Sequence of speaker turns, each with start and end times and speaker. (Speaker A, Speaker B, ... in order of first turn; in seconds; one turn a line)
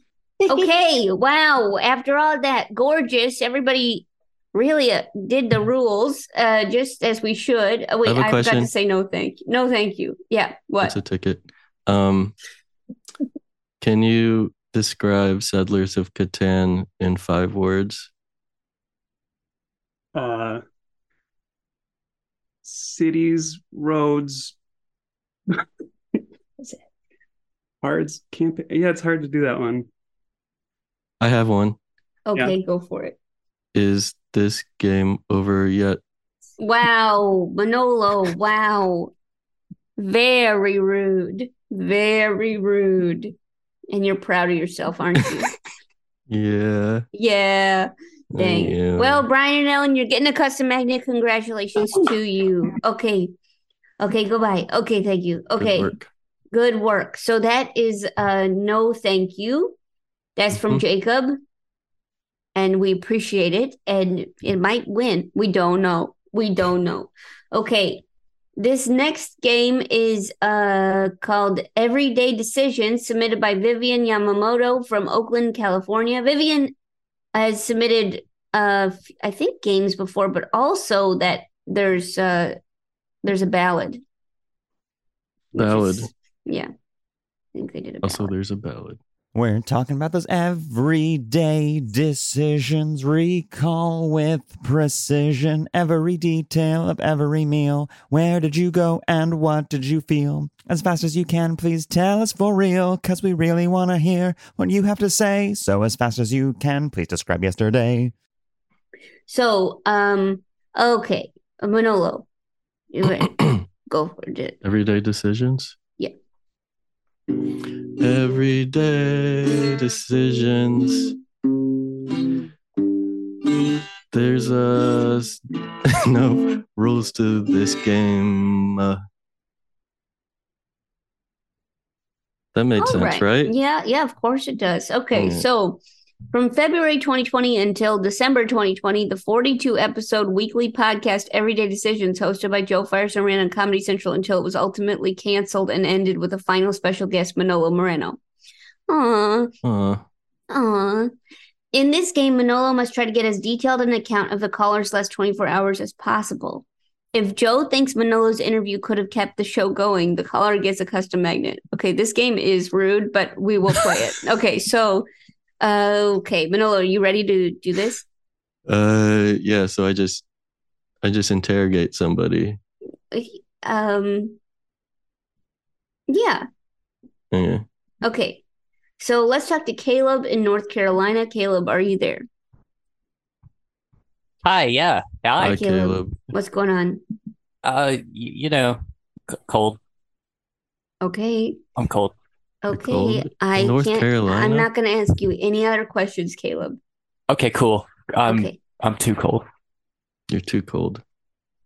Speaker A: 0.5-11.0
Speaker B: 8.0-8.7
Speaker B: 10.8-12.3
Speaker B: 13.8-18.1
Speaker C: 20.1-20.6
Speaker C: 22.6-24.5
Speaker C: 27.8-29.9
Speaker B: 31.2-31.8
Speaker A: 32.3-33.1
Speaker B: 33.7-36.0
Speaker A: 36.6-39.1
Speaker A: 40.0-43.3
Speaker A: 43.9-45.5
Speaker B: 46.3-47.0
Speaker A: 47.1-53.3
Speaker B: 48.3-49.2
Speaker A: 54.0-55.9
Speaker B: 55.6-56.1
Speaker A: 56.5-59.8
Speaker A: 60.4-61.4
Speaker B: 60.5-60.8
Speaker A: 62.5-68.0
Speaker A: 68.6-76.7
Speaker A: 77.3-82.6
Speaker A: 83.2-84.0
Speaker A: 85.5-86.7
Speaker B: 85.5-86.1
Speaker A: 87.5-88.3
Speaker B: 88.0-89.0
Speaker D: 89.3-108.1
Speaker A: 109.3-112.2
Speaker A: 112.9-113.3
Speaker B: 113.3-113.6
Speaker A: 113.9-114.6
Speaker B: 114.6-115.8
Speaker B: 118.0-121.2
Speaker B: 124.1-129.0
Speaker B: 132.5-133.5
Speaker A: 132.8-148.2
Speaker B: 135.1-135.4
Speaker A: 148.9-149.5
Speaker B: 149.6-150.0
Speaker A: 150.5-151.1
Speaker A: 151.7-165.1
Speaker A: 165.6-168.0
Speaker B: 168.7-170.2
Speaker B: 171.0-172.6
Speaker A: 173.1-174.4
Speaker A: 176.1-176.4
Speaker B: 177.3-177.6
Speaker A: 178.0-178.4
Speaker A: 179.0-182.2
Speaker E: 184.4-185.6
Speaker B: 185.4-186.2
Speaker A: 185.4-187.0
Speaker E: 187.6-188.8
Speaker E: 189.3-189.8
Speaker A: 191.0-191.6
Speaker E: 191.8-192.1
Speaker A: 192.6-196.8
Speaker B: 192.7-194.7
Speaker E: 197.3-199.4
Speaker A: 198.3-198.6
Speaker B: 200.3-201.0